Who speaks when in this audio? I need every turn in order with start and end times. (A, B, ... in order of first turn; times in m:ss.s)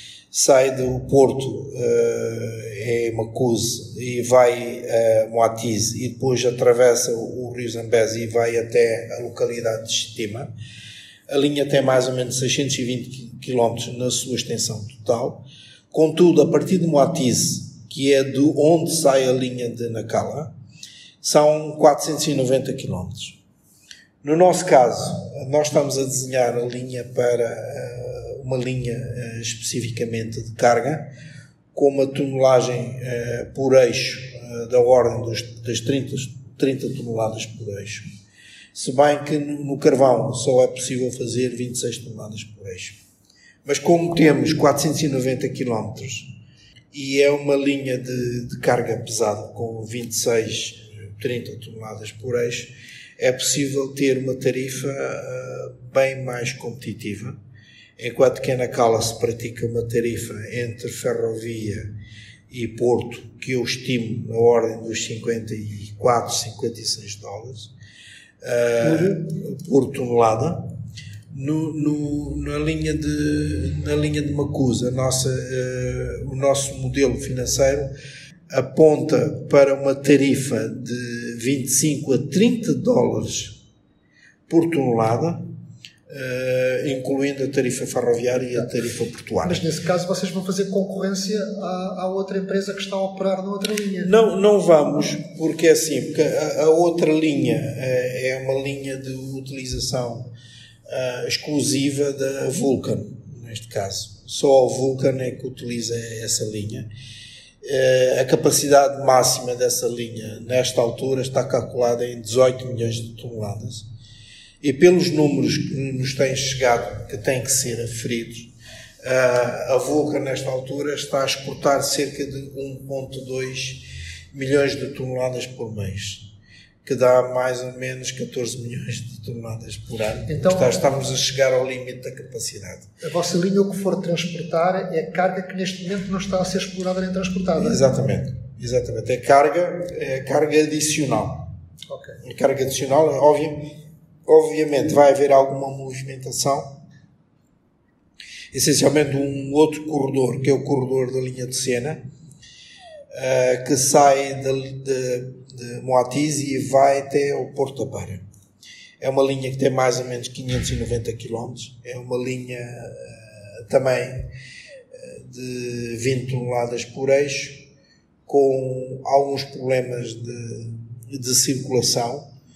0:00.3-0:10.5 A
0:11.3-0:20.5 A
0:21.2-0:23.4 A
0:24.2-0:31.1 A
0:31.7-0:38.1 A
0:38.7-0:43.0 A
0:43.6-0:46.3 A
0:46.9-0:57.4 A
0:58.0-1:01.9 A
1:02.5-1:07.7 A
1:08.4-1:10.7 A
1:08.8-1:09.2 B
1:11.3-1:17.9 A
1:18.5-1:23.6 A
1:24.5-1:25.5 A
1:26.1-1:29.6 A
1:29.4-1:34.1 B
1:34.0-1:40.3 A
1:40.9-1:46.9 A
1:47.6-1:53.8 A
1:54.6-2:06.3 A
2:06.8-2:12.9 A
2:10.3-2:10.7 B
2:13.0-2:17.8 B
2:17.6-2:21.5 A
2:21.9-2:22.2 B
2:22.2-2:26.8 A
2:28.5-2:32.1 A
2:33.1-2:38.2 A
2:39.0-2:44.3 A
2:44.9-2:47.7 A
2:48.2-2:52.3 A